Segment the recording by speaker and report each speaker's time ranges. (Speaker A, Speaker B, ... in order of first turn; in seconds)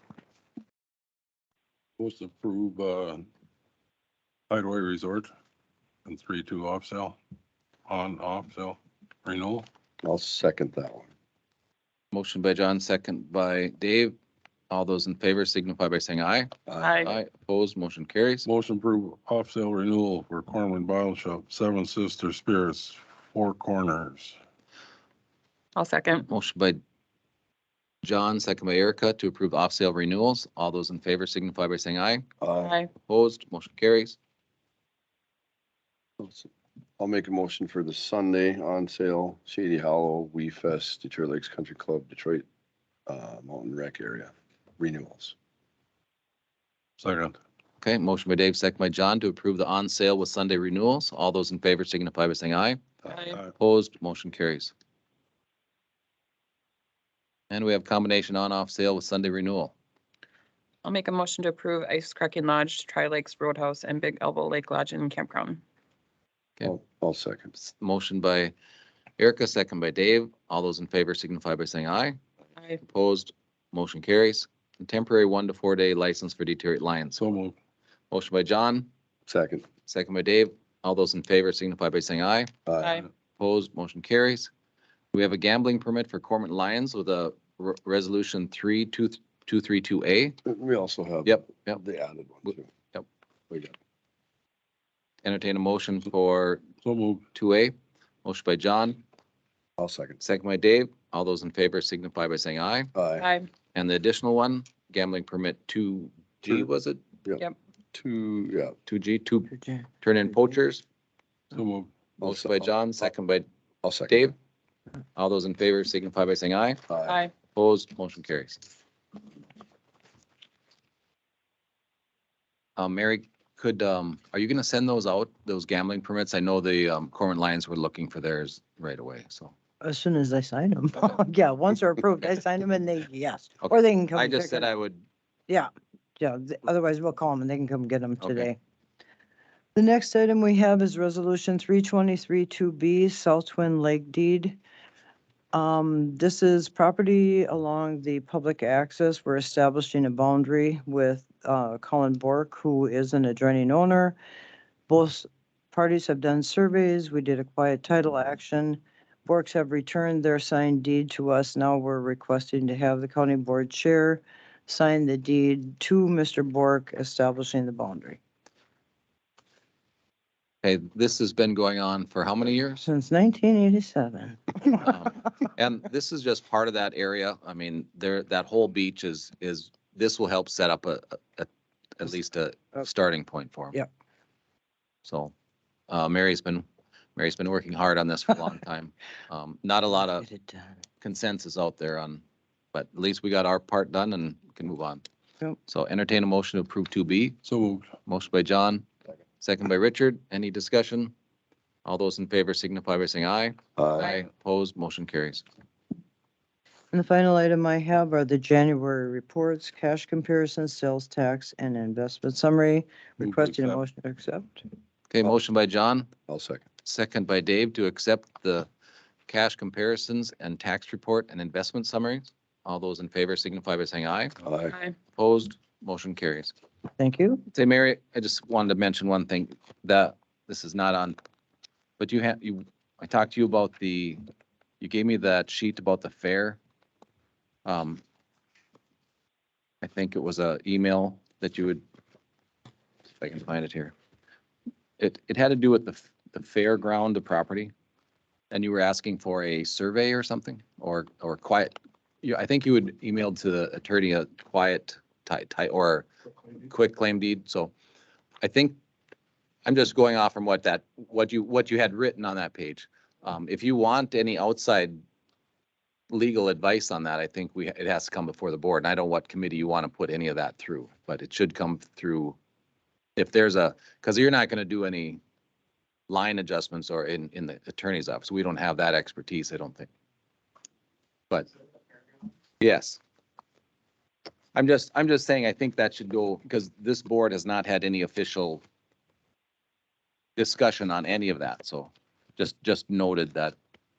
Speaker A: 2.0-3.3, 4.5-5.3, 6.0-7.2, 7.9-9.7, 18.5-24.4, 47.0-47.4, 53.1-53.5, 77.2-77.6, 96.8-97.3, 111.5-111.9, 197.4-197.9, 213.2-213.8
Speaker B: 10.0-11.1, 16.7-17.0, 32.4-32.8, 36.2-42.5, 43.1-45.4, 66.6-67.5, 79.3-79.7, 82.7-83.0, 90.5-92.7, 93.5-93.8, 99.8-100.2, 103.0-103.3, 107.2-108.8, 112.2-113.1, 113.8-114.3, 116.9-117.2, 203.8-204.1, 216.3-216.7, 224.4-224.8
Speaker C: 12.1-14.1, 14.7-16.5, 17.0-18.5, 26.3-26.8, 28.0-32.2, 33.0-34.2, 47.8-52.8, 53.6-54.7, 57.5-59.7, 67.6-68.5, 69.2-72.2, 72.8-77.2, 78.1-78.9, 79.9-82.5, 83.4-84.5, 85.1-90.4, 91.3-91.8, 95.2-96.6, 97.3-97.7, 98.2-99.0, 100.2-102.9, 103.7-107.0, 108.9-109.5, 110.0-110.8, 112.2-113.5, 114.1-114.3, 115.2-116.8, 117.5-118.6, 122.8-129.5, 133.6-135.1, 138.2-138.5, 170.6-172.8, 174.8-183.8, 185.1-185.3, 185.9-186.7, 187.2-190.2, 191.0-192.2, 192.7-195.0, 195.7-197.4, 198.1-198.9, 199.4-201.1, 201.8-205.4, 215.1-216.1, 216.8-218.7, 219.3-224.3, 225.1-226.5, 227.5-231.2, 232.0-234.2, 234.8-236.6, 237.7-238.0, 239.8-241.8, 243.2-243.9, 245.0-247.7, 248.5-256.1, 256.7-257.7, 258.4-258.8, 259.6-265.0, 266.1-272.4, 273.2-275.2, 276.1-279.9, 282.6-283.0, 284.6-288.6, 290.4-293.6
Speaker D: 16.8-17.1, 25.8-26.3, 32.6-32.9, 53.1-53.4, 60.9-65.6, 82.8-83.1, 103.2-103.5, 117.1-117.3
Speaker E: 109.5-109.9, 129.8-134.7, 135.5-138.6, 139.8-144.6, 145.5-154.2, 154.9-168.2, 172.8-174.9, 190.1-190.8, 206.9-214.7, 227.0-227.4